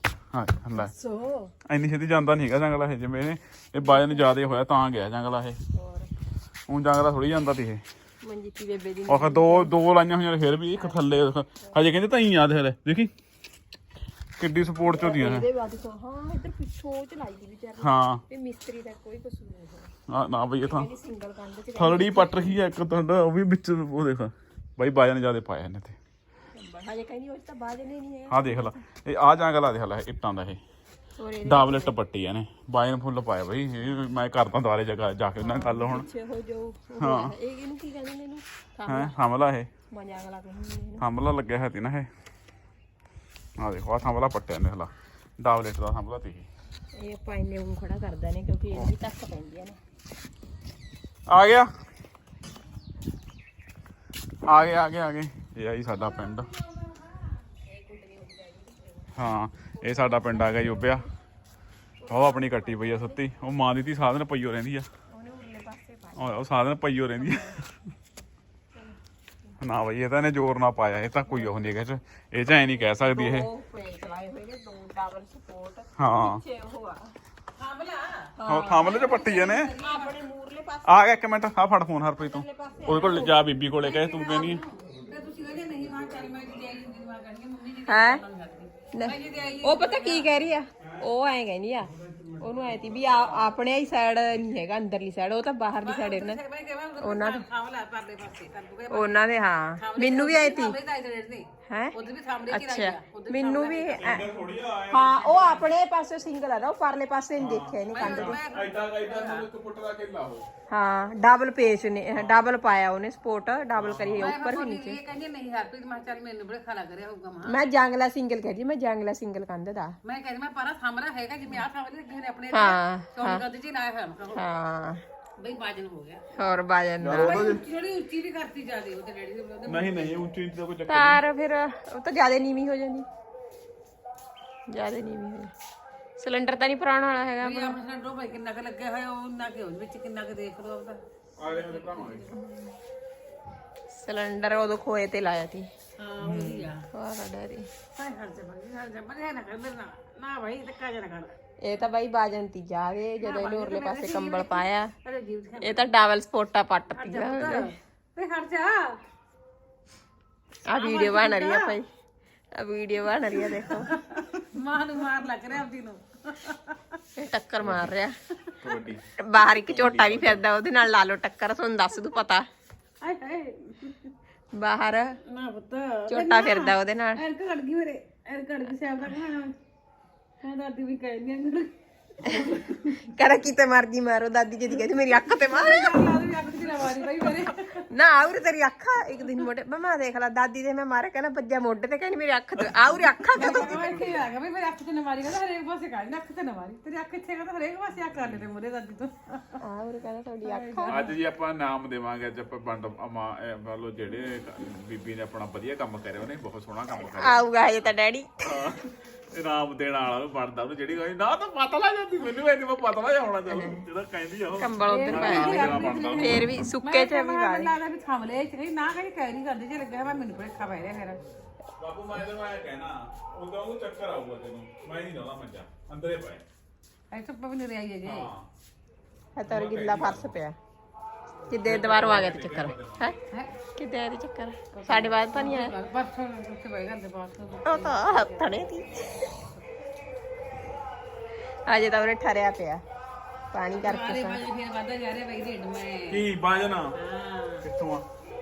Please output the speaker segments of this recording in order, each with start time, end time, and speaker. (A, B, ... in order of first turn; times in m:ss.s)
0:00.3-0:00.9 A
0:01.7-0:05.6 A
0:03.8-0:04.3 B
0:05.8-0:06.1 B
0:06.7-0:07.8 A
0:08.2-0:09.7 B
0:09.1-0:13.1 A
0:10.7-0:11.8 B
0:14.4-0:15.5 A
0:14.8-0:19.9 B
0:17.8-0:18.2 A
0:20.1-0:20.9 A
0:20.6-0:22.6 B
0:21.8-0:25.9 A
0:26.5-0:28.7 B
0:28.3-0:30.6 A
0:31.2-0:32.0 B
0:31.4-0:36.1 A
0:35.4-0:39.2 B
0:37.0-0:37.4 A
0:38.9-0:39.7 A
0:39.9-0:41.0 B
0:41.0-0:42.1 A
0:43.6-0:46.5 A
0:47.0-0:49.8 B
0:51.3-0:51.7 A
0:54.5-0:56.5 A
0:57.6-0:59.0 B
0:59.2-1:01.1 A
0:59.7-1:01.0 B
1:02.0-1:03.2 B
1:02.1-1:04.8 A
1:05.1-1:06.4 B
1:06.2-1:07.5 A
1:07.1-1:07.6 B
1:09.6-1:13.5 A
1:11.2-1:11.7 B
1:13.0-1:17.1 B
1:16.0-1:16.4 A
1:17.6-1:18.3 C
1:18.4-1:21.3 B
1:18.4-1:19.7 A
1:19.0-1:20.1 C
1:20.8-1:24.6 A
1:22.3-1:23.4 B
1:22.8-1:23.3 C
1:23.8-1:30.3 C
1:27.9-1:28.2 B
1:28.9-1:36.4 B
1:35.8-1:39.2 C
1:37.0-1:37.4 B
1:38.9-1:40.7 B
1:39.8-1:44.1 C
1:41.7-1:41.9 B
1:42.5-1:44.3 B
1:43.9-1:45.7 A
1:44.9-1:48.4 B
1:47.4-1:50.4 A
1:47.9-1:49.4 C
1:50.7-1:55.0 B
1:52.1-1:52.5 A
1:53.7-1:54.3 A
1:54.2-1:57.6 C
1:57.5-1:59.9 B
2:00.0-2:04.4 C
2:02.5-2:03.4 B
2:04.4-2:05.0 B
2:05.4-2:06.2 C
2:06.4-2:07.6 B
2:07.1-2:10.0 C
2:09.6-2:11.2 A
2:10.9-2:13.1 B
2:14.7-2:15.5 B
2:16.2-2:17.8 B
2:17.4-2:22.3 C
2:21.4-2:22.3 A
2:22.3-2:22.7 B
2:23.9-2:25.7 B
2:26.0-2:26.8 C
2:26.2-2:26.7 A
2:26.9-2:27.7 B
2:28.0-2:31.3 C
2:31.6-2:34.9 B
2:33.2-2:35.9 C
2:35.6-2:37.6 B
2:36.9-2:38.8 C
2:40.7-2:41.8 B
2:40.7-2:41.8 C
2:42.6-2:43.9 B
2:43.3-2:46.8 C
2:47.2-2:48.1 B
2:47.6-2:47.9 A
2:48.6-2:50.5 A
2:49.3-2:52.4 B
2:53.0-2:54.0 C
2:54.5-2:55.1 B
2:55.3-2:59.5 C
2:56.1-2:57.2 B
3:00.4-3:01.7 C
3:02.3-3:02.8 C
3:03.1-3:06.0 B
3:05.4-3:07.8 C
3:07.9-3:14.0 B
3:13.3-3:19.5 C
3:19.6-3:21.1 B
3:20.4-3:21.2 C
3:20.9-3:27.4 A
3:27.0-3:28.6 B
3:28.4-3:36.5 A
3:33.4-3:33.8 B
3:34.6-3:37.7 B
3:34.8-3:41.2 C
3:41.8-3:46.4 A
3:47.1-3:48.3 C
3:48.0-3:48.4 A
3:49.4-3:50.6 B
3:49.4-3:50.3 A
3:51.5-3:53.2 B
3:51.5-3:53.1 A
3:53.8-3:55.7 B
3:54.7-3:58.5 C
3:57.7-3:59.3 B
4:01.7-4:02.8 B
4:03.5-4:04.4 B
4:03.8-4:06.2 C
4:06.1-4:06.9 A
4:06.9-4:07.6 C
4:07.6-4:08.0 A